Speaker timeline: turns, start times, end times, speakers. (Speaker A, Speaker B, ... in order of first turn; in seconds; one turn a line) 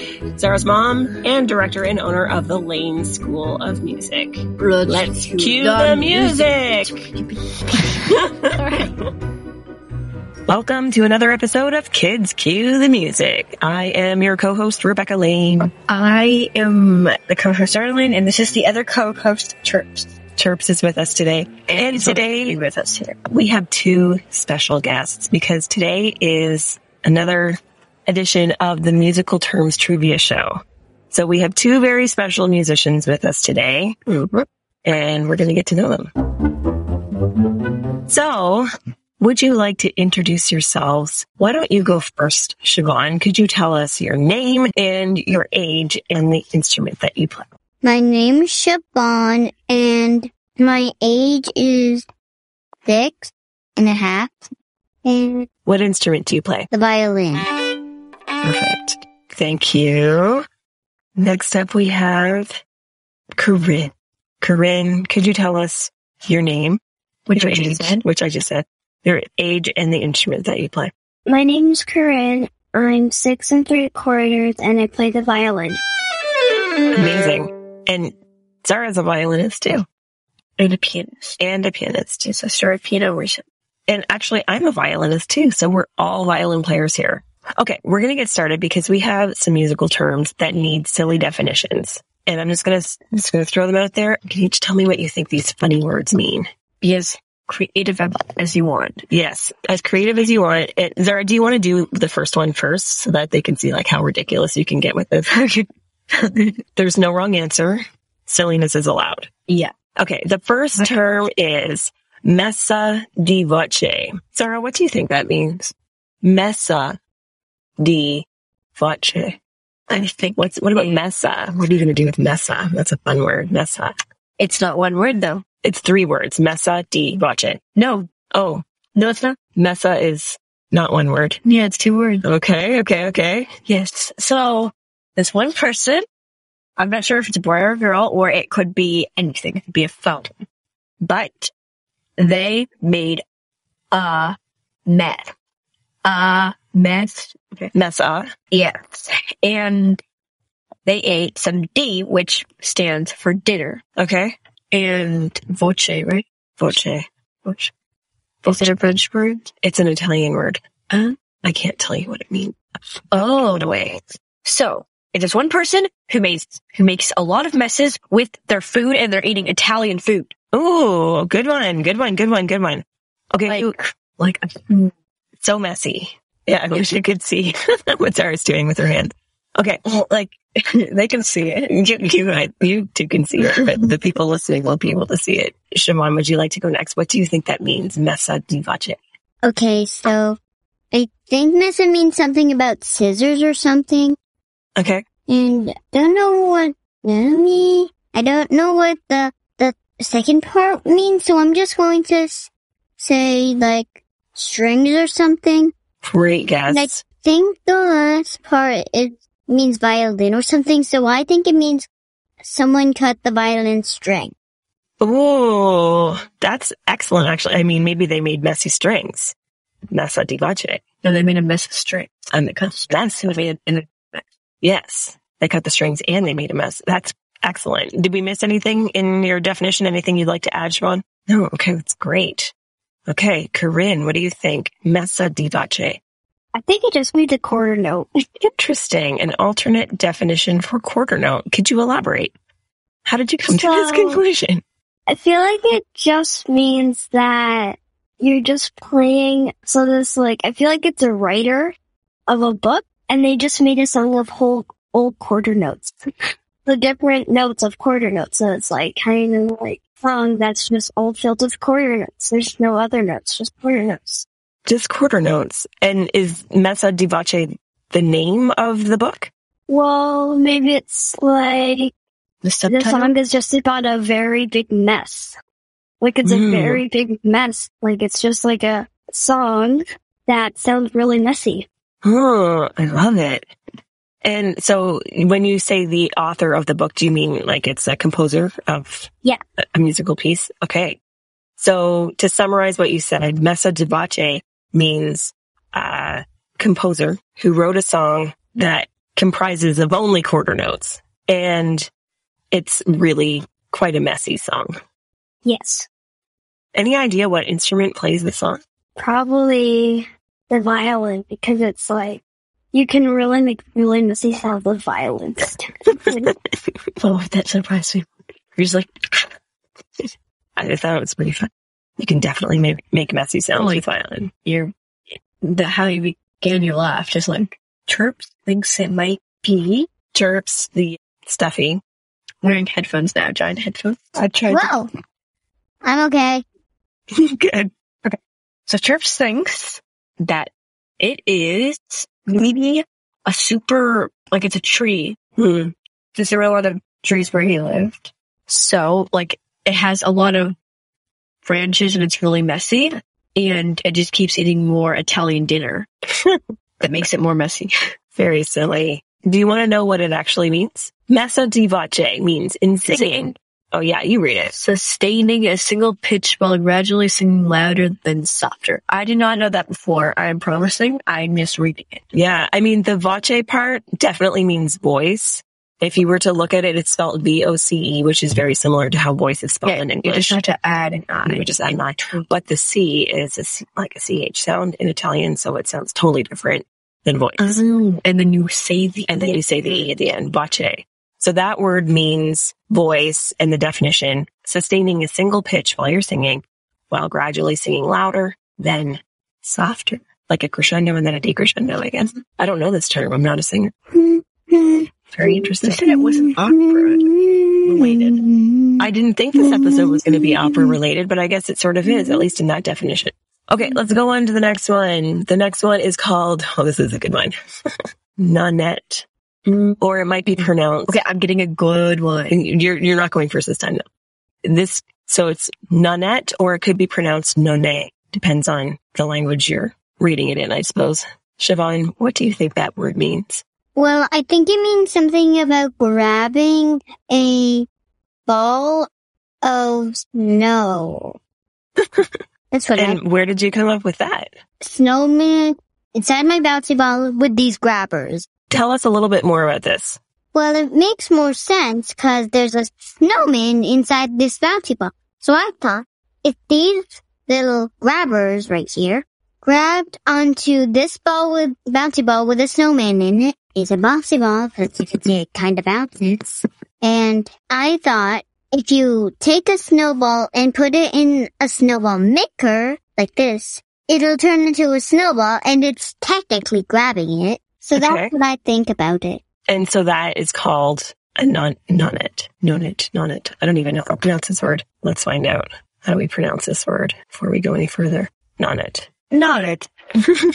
Speaker A: 0.4-7.0
Speaker B: 4.6-9.0
Speaker A: 8.1-8.8
Speaker A: 10.5-15.7
Speaker B: 15.9-20.1
Speaker A: 20.4-22.6
Speaker B: 21.7-23.2
Speaker A: 23.3-34.1
Speaker A: 34.9-36.1
Speaker A: 38.1-38.7
Speaker A: 39.2-47.5
Speaker C: 47.8-52.1
Speaker C: 52.9-54.5
Speaker C: 55.0-55.5
Speaker A: 55.7-56.7
Speaker C: 56.7-57.5
Speaker A: 58.4-60.5
Speaker A: 61.2-62.6
Speaker A: 63.4-66.8
Speaker B: 67.3-68.0
Speaker A: 67.3-70.9
Speaker D: 71.3-75.8
Speaker A: 77.0-79.9
Speaker B: 80.6-81.4
Speaker A: 81.4-82.3
Speaker B: 82.2-83.5
Speaker A: 83.9-96.5
Speaker B: 96.8-99.0
Speaker A: 99.1-105.4
Speaker B: 105.3-106.5
Speaker A: 106.8-109.3
Speaker B: 109.5-109.7
Speaker A: 110.0-117.0
Speaker A: 117.8-119.4
Speaker B: 119.9-120.9
Speaker A: 120.4-123.9
Speaker B: 124.4-125.4
Speaker A: 125.6-127.6
Speaker B: 127.8-128.1
Speaker A: 128.3-128.6
Speaker B: 129.0-129.4
Speaker A: 129.6-131.4
Speaker B: 131.4-132.2
Speaker A: 132.2-133.5
Speaker B: 133.7-136.1
Speaker B: 136.8-140.3
Speaker B: 141.0-141.5
Speaker B: 142.2-143.2
Speaker B: 143.9-144.4
Speaker B: 144.9-145.3
Speaker B: 146.0-147.7
Speaker A: 147.7-148.3
Speaker B: 148.5-150.0
Speaker B: 150.8-153.8
Speaker A: 154.0-154.4
Speaker B: 154.7-156.3
Speaker A: 156.6-157.1
Speaker B: 157.4-157.7
Speaker B: 158.4-159.5
Speaker A: 159.6-160.6
Speaker B: 160.9-161.2
Speaker A: 161.4-162.6
Speaker B: 163.1-163.9
Speaker A: 163.1-164.0
Speaker B: 164.4-170.3
Speaker A: 170.5-173.7
Speaker B: 173.5-174.9
Speaker A: 175.4-179.8
Speaker B: 179.9-181.7
Speaker A: 181.7-189.0
Speaker C: 189.4-190.4
Speaker C: 190.9-194.2
Speaker A: 194.8-195.0
Speaker C: 195.3-205.7
Speaker A: 206.0-207.0
Speaker C: 206.7-211.9
Speaker C: 212.4-214.3
Speaker A: 215.0-219.3
Speaker A: 219.9-220.8
Speaker B: 221.0-224.3
Speaker A: 222.3-223.3
Speaker A: 224.6-232.5
Speaker A: 233.1-236.0
Speaker D: 236.5-238.1
Speaker A: 238.4-242.3
Speaker A: 243.1-244.6
Speaker D: 243.5-244.2
Speaker D: 245.1-251.8
Speaker D: 252.3-256.0
Speaker D: 256.7-264.3
Speaker A: 264.7-269.3
Speaker D: 269.7-271.9
Speaker B: 272.4-273.1
Speaker D: 272.7-275.4
Speaker D: 276.0-281.7
Speaker A: 276.2-276.8
Speaker A: 282.0-283.5
Speaker A: 284.2-289.1
Speaker A: 289.8-291.0
Speaker A: 291.6-301.9
Speaker A: 302.5-304.8
Speaker D: 305.4-305.9
Speaker A: 306.7-308.6
Speaker D: 309.0-312.2
Speaker D: 312.7-316.3
Speaker B: 317.0-319.3
Speaker A: 320.6-324.3
Speaker B: 323.6-323.8
Speaker B: 324.4-324.7
Speaker B: 325.4-329.9
Speaker A: 330.1-331.8
Speaker B: 332.4-334.7
Speaker C: 334.5-334.9
Speaker C: 335.8-336.4
Speaker A: 337.1-337.7
Speaker B: 338.7-345.2
Speaker A: 345.4-345.7
Speaker B: 346.2-350.6
Speaker B: 351.4-355.9
Speaker B: 356.8-357.7
Speaker A: 358.2-364.6
Speaker B: 362.9-363.4
Speaker B: 364.5-372.0
Speaker A: 372.1-380.4
Speaker B: 379.6-381.5
Speaker A: 381.3-387.6
Speaker B: 387.4-389.2
Speaker A: 389.1-403.7
Speaker C: 403.9-410.8
Speaker A: 405.1-405.9
Speaker B: 405.6-407.1
Speaker B: 407.7-408.2
Speaker A: 408.8-417.3
Speaker C: 411.9-412.2
Speaker A: 418.2-419.1
Speaker A: 419.8-421.0
Speaker B: 420.4-422.4
Speaker A: 422.3-423.8
Speaker A: 424.4-433.4
Speaker C: 433.8-437.7
Speaker C: 438.3-438.9
Speaker C: 439.4-441.2
Speaker A: 441.8-442.2
Speaker C: 442.5-443.0
Speaker A: 442.8-444.4
Speaker C: 444.6-448.3
Speaker A: 448.5-450.0
Speaker C: 450.3-479.2
Speaker A: 477.8-478.1
Speaker A: 479.5-488.9
Speaker B: 489.1-489.7